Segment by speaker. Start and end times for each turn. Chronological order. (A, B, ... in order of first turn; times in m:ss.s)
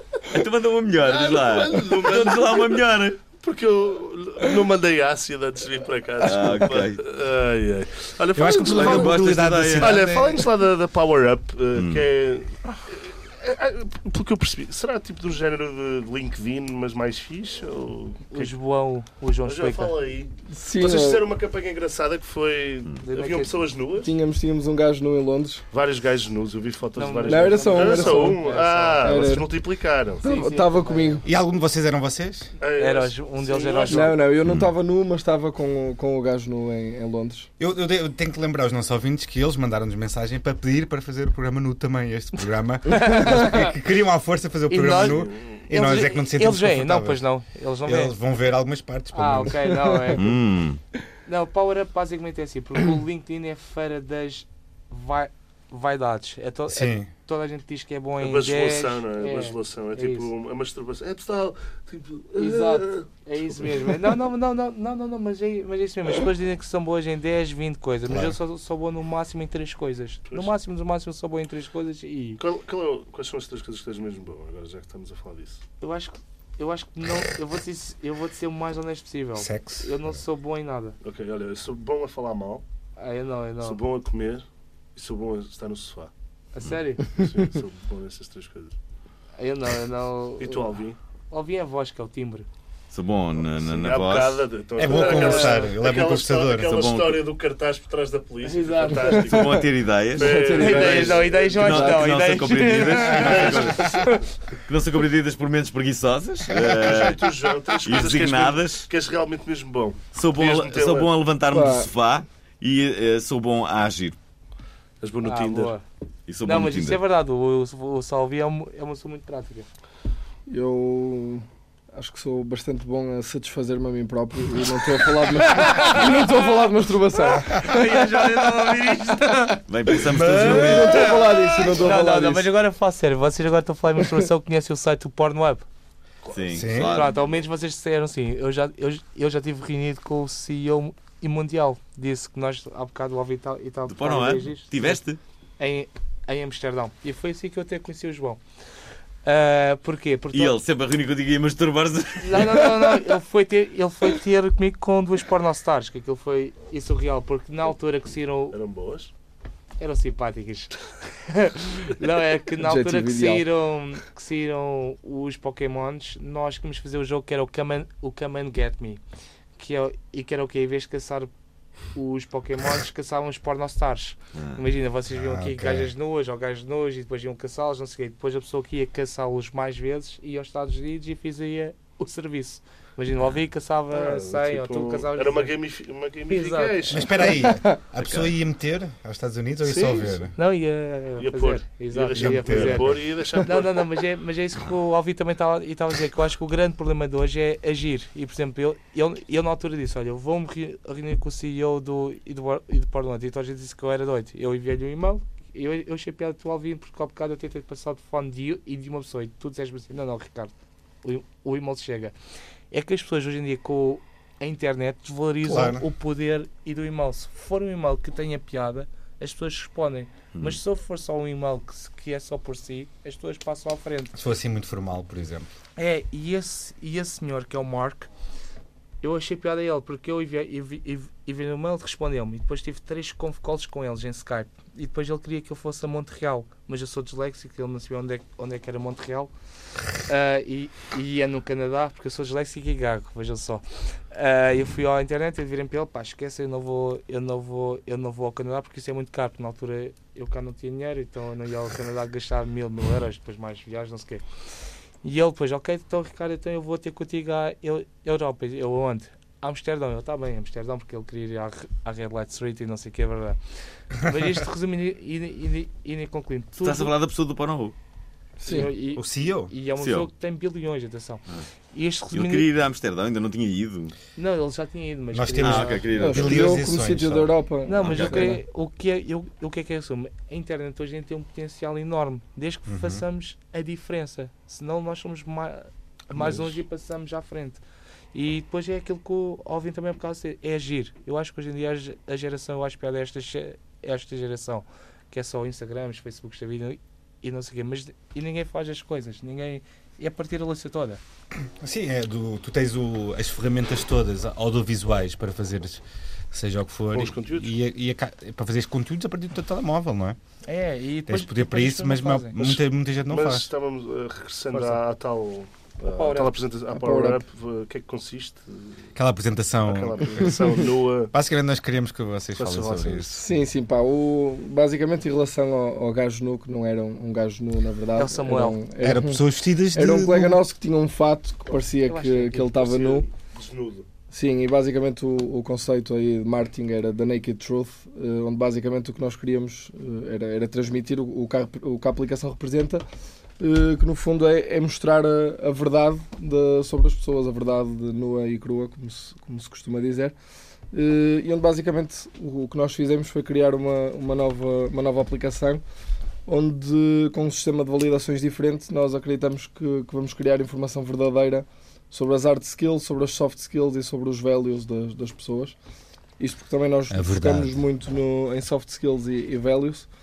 0:00.3-0:03.2 A
0:01.0-0:18.5 B
0:06.2-0:07.0 A
0:08.3-0:10.2 C
0:08.7-0:10.0 A
0:09.8-0:10.4 D
0:11.7-0:12.0 A
0:18.3-0:20.0 D
0:19.4-0:24.1 B
0:20.5-0:21.2 E
0:23.0-0:23.5 D
0:24.0-0:25.6 E
0:25.7-0:30.2 B
0:27.0-0:29.3 D
0:27.2-0:29.6 E
0:30.2-0:31.2 E
0:30.2-0:31.2 D
0:31.2-0:32.5 C
0:32.6-0:34.2 B
0:32.8-0:34.2 D
0:33.9-0:37.5 E
0:37.6-0:47.2 C
0:42.9-0:43.7 D
0:44.7-0:48.1 D
0:45.1-0:45.6 B
0:47.8-0:49.7 C
0:49.1-0:50.3 D
0:49.6-0:50.3 E
0:50.2-0:50.8 A
0:51.2-1:00.3 D
0:56.7-0:57.1 C
0:58.2-1:04.0 B
1:02.4-1:12.4 D
1:08.1-1:08.4 C
1:12.4-1:15.6 B
1:15.8-1:21.0 D
1:19.4-1:20.2 C
1:21.0-1:22.6 B
1:23.0-1:23.8 D
1:23.6-1:26.1 B
1:26.5-1:27.1 D
1:27.1-1:28.8 B
1:29.4-1:30.7 D
1:30.4-1:31.0 B
1:31.3-1:32.5 D
1:32.9-1:34.4 A
1:33.5-1:41.7 B
1:34.8-1:36.8 C
1:34.9-1:35.7 D
1:36.7-1:37.2 A
1:38.4-1:39.3 D
1:39.2-1:44.1 A
1:40.2-1:42.1 E
1:40.5-1:44.2 D
1:43.1-1:44.2 B
1:43.8-1:44.0 E
1:44.6-1:47.3 A
1:46.6-1:51.1 B
1:47.8-1:48.9 A
1:50.1-1:54.2 A
1:51.5-1:51.9 E
1:55.0-1:55.7 B
1:55.2-1:55.8 D
1:56.3-1:57.0 A
1:56.4-1:59.6 D
2:00.5-2:08.7 E
2:05.5-2:06.4 D
2:07.2-2:09.6 D
2:09.7-2:11.3 A
2:09.9-2:12.5 E
2:10.2-2:15.6 D
2:16.3-2:17.2 A
2:16.5-2:17.0 C
2:16.8-2:25.0 D
2:23.9-2:25.2 A
2:25.6-2:28.4 D
2:29.2-2:30.6 D
2:30.3-2:32.7 A
2:32.2-2:38.6 D
2:38.5-2:39.1 B
2:39.8-2:49.0 D
2:42.6-2:43.4 E
2:49.6-2:51.3 D
2:51.9-3:05.5 D
2:54.3-2:54.6 A
2:55.1-2:55.9 C
3:03.9-3:07.4 B
3:06.3-3:06.8 D
3:06.9-3:10.3 C
3:09.6-3:10.3 B
3:10.3-3:30.5 D
3:11.2-3:13.8 B
3:12.1-3:13.0 C
3:31.0-3:32.1 D
3:32.7-3:44.1 D
3:35.4-3:35.9 C
3:40.3-3:40.6 A
3:44.1-3:45.5 C
3:45.8-3:48.1 D
3:49.0-3:59.3 D
4:00.0-4:14.2 D
4:15.0-4:23.4 D
4:23.9-4:26.9 D
4:26.6-4:27.7 A
4:28.4-4:28.7 E
4:28.4-4:32.4 D
4:28.9-4:29.5 C
4:29.8-4:30.1 A
4:32.1-4:33.9 A
4:34.2-4:36.3 D
4:35.1-4:37.3 C
4:35.4-4:36.6 A
4:36.0-4:38.4 E
4:37.6-4:47.6 D
4:37.8-4:38.3 A
4:42.7-4:43.0 C
4:48.1-5:01.0 D
5:01.6-5:10.2 C
5:06.9-5:07.5 B
5:10.4-5:12.3 D
5:11.1-5:13.5 C
5:12.4-5:18.9 B
5:14.5-5:14.8 D
5:15.8-5:16.4 D
5:16.7-5:17.2 E
5:18.9-5:20.6 C
5:19.6-5:21.1 B
5:21.1-5:23.2 C
5:22.3-5:23.2 B
5:23.1-5:33.1 E
5:27.9-5:28.6 D
5:28.8-5:30.4 C
5:31.8-5:32.5 D
5:32.4-5:33.9 B
5:34.1-5:42.8 E
5:43.4-5:50.1 E
5:50.7-5:55.6 E
5:56.3-6:05.6 E
6:06.2-6:09.9 E
6:06.9-6:07.5 C